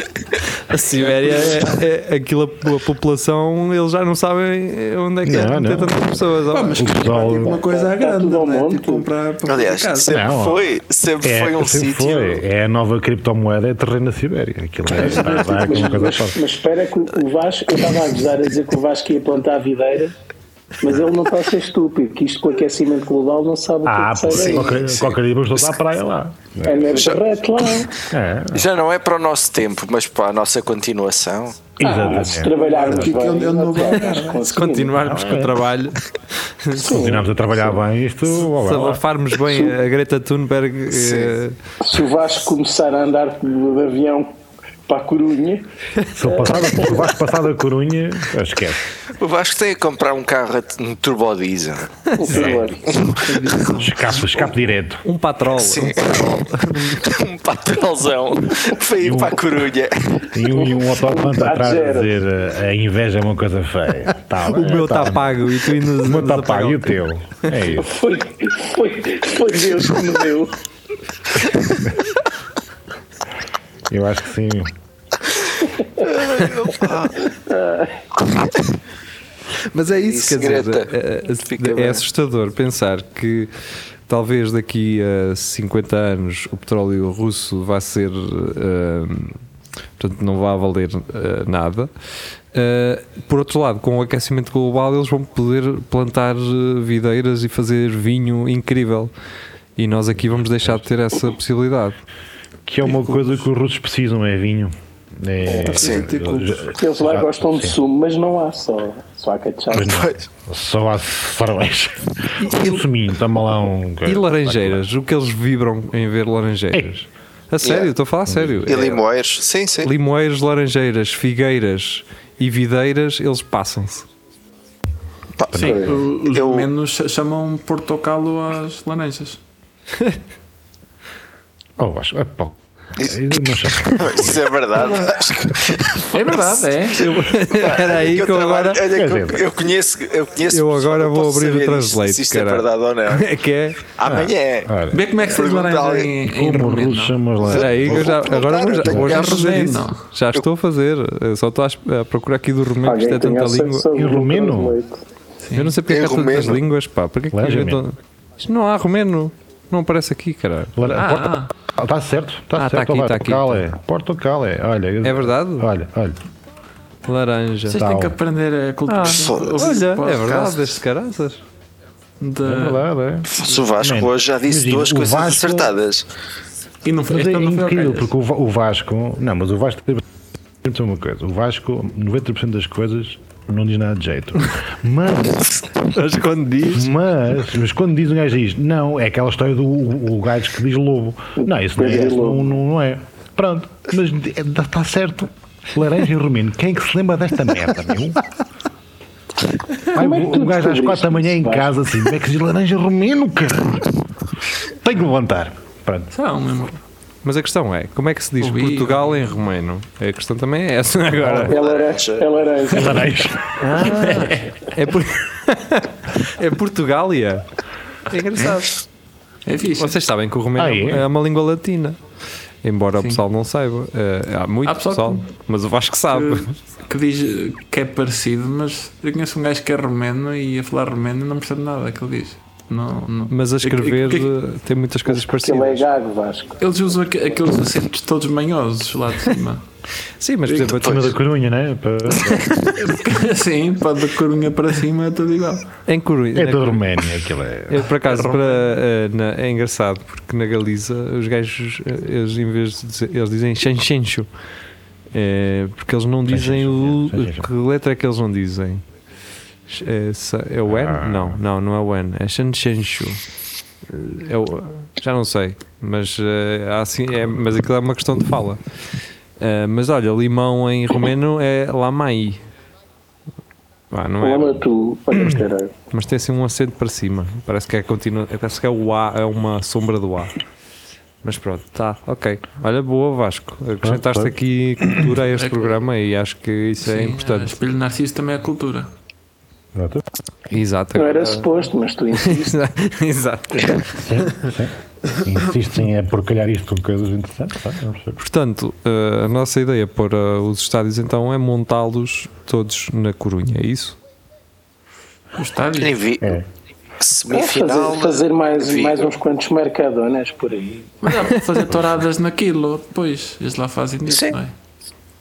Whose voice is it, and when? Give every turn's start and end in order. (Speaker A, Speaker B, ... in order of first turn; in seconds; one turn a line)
Speaker A: 0.7-6.9
Speaker B: 5.2-6.0
Speaker C: 6.5-10.3
Speaker B: 6.7-7.6
Speaker D: 7.1-9.1
Speaker E: 9.5-12.4
Speaker B: 10.1-10.7
Speaker B: 11.2-16.4
Speaker C: 14.9-15.9
Speaker D: 15.0-20.1
Speaker D: 20.8-24.7
Speaker B: 23.9-27.1
Speaker E: 24.3-25.7
Speaker D: 26.6-28.0
Speaker E: 27.0-27.9
Speaker B: 28.1-28.7
Speaker E: 28.5-31.8
Speaker B: 31.8-33.2
Speaker D: 31.8-35.0
Speaker C: 32.5-34.5
Speaker A: 34.5-37.0
Speaker B: 35.0-35.6
Speaker D: 36.8-37.7
Speaker B: 36.8-39.0
Speaker A: 38.3-41.6
Speaker D: 39.5-39.7
Speaker E: 40.9-41.4
Speaker D: 41.8-44.3
Speaker D: 44.9-45.7
Speaker B: 46.1-48.8
Speaker D: 46.2-47.0
Speaker E: 49.1-53.4
Speaker D: 52.2-52.9
Speaker C: 52.9-54.4
Speaker B: 53.7-55.0
Speaker A: 55.0-57.0
Speaker E: 55.5-60.3
Speaker B: 59.0-59.4
Speaker B: 60.3-67.9
Speaker D: 60.5-62.1
Speaker A: 64.4-67.7
Speaker D: 67.8-70.6
Speaker B: 73.9-74.7
Speaker E: 76.0-77.3
Speaker D: 77.3-78.0
Speaker A: 79.7-83.5
Speaker E: 80.0-80.9
Speaker E: 81.4-82.0
Speaker A: 84.1-89.4
Speaker A: 90.0-91.9
Speaker A: 92.5-99.1
Speaker A: 99.8-102.0
Speaker B: 100.2-100.8
Speaker B: 102.7-107.8
Speaker C: 102.8-103.4
Speaker D: 105.5-105.8
Speaker C: 105.7-106.7
Speaker E: 105.7-106.1
Speaker D: 106.7-110.0
Speaker B: 109.7-114.9
Speaker E: 109.8-110.2
Speaker A: 112.4-112.8
Speaker A: 114.0-119.0
Speaker E: 117.6-117.9
Speaker B: 118.3-118.8
Speaker E: 118.7-119.9
Speaker A: 119.8-124.1
Speaker E: 125.4-126.7
Speaker B: 125.5-126.0
Speaker C: 125.5-129.4
Speaker B: 131.8-134.5
Speaker E: 133.0-133.3
Speaker E: 133.8-136.6
Speaker C: 136.1-137.1
Speaker A: 136.9-138.8
Speaker E: 137.4-143.3
Speaker B: 138.9-139.6
Speaker A: 140.5-143.9
Speaker E: 144.0-146.2
Speaker B: 144.0-145.1
Speaker C: 144.9-147.2
Speaker B: 146.2-148.2
Speaker E: 147.4-149.5
Speaker A: 147.5-153.9
Speaker B: 148.8-149.3
Speaker C: 148.9-150.1
Speaker D: 152.8-155.0
Speaker B: 153.9-154.8
Speaker C: 155.4-155.8
Speaker A: 155.5-161.0
Speaker E: 155.9-156.6
Speaker B: 157.3-157.8
Speaker B: 160.8-166.2
Speaker C: 160.9-161.5
Speaker A: 162.6-163.7
Speaker A: 165.0-165.7
Speaker A: 167.1-167.8
Speaker C: 167.7-170.8
Speaker B: 167.8-168.2
Speaker A: 168.9-171.4
Speaker E: 169.1-169.6
Speaker C: 172.2-172.9
Speaker B: 172.4-175.7
Speaker E: 173.3-176.1
Speaker C: 176.8-178.1
Speaker B: 177.1-180.0
Speaker B: 180.6-185.6
Speaker A: 185.8-186.9
Speaker B: 186.7-198.2
Speaker D: 191.4-192.5
Speaker D: 199.9-201.7
Speaker B: 199.9-204.0
Speaker B: 204.7-206.1
Speaker C: 206.1-206.8
Speaker A: 207.2-211.5
Speaker C: 208.4-209.2
Speaker B: 211.2-211.5
Speaker E: 211.5-212.3
Speaker D: 211.5-213.2
Speaker B: 212.7-214.4
Speaker A: 213.8-217.4
Speaker C: 213.8-214.4
Speaker A: 218.1-218.8
Speaker C: 219.5-220.0
Speaker A: 219.8-222.0
Speaker B: 220.6-221.1
Speaker A: 222.6-226.5
Speaker C: 224.7-225.3
Speaker C: 226.1-234.3
Speaker A: 233.3-235.9
Speaker D: 235.1-236.6
Speaker C: 236.6-239.6
Speaker A: 240.2-241.2
Speaker B: 240.5-242.7
Speaker A: 242.4-242.7
Speaker C: 242.7-245.7
Speaker A: 245.9-247.0
Speaker B: 246.3-247.9
Speaker A: 247.7-254.3
Speaker C: 248.1-248.7
Speaker A: 255.1-258.8
Speaker B: 256.3-257.5
Speaker A: 259.7-263.2
Speaker B: 260.7-261.4
Speaker A: 263.9-268.6
Speaker A: 269.4-272.4
Speaker A: 273.9-274.6
Speaker D: 274.2-275.7
Speaker A: 275.9-280.4
Speaker A: 281.2-287.6
Speaker B: 283.8-284.4
Speaker C: 285.4-285.8
Speaker C: 286.8-288.9
Speaker B: 289.8-290.0
Speaker A: 290.5-291.5
Speaker D: 290.9-292.6
Speaker A: 292.1-294.5
Speaker B: 293.8-298.2
Speaker A: 298.2-304.0
Speaker C: 305.4-305.9
Speaker E: 305.8-306.4
Speaker B: 306.2-306.5
Speaker E: 307.0-309.1
Speaker D: 307.3-311.0
Speaker C: 311.0-314.6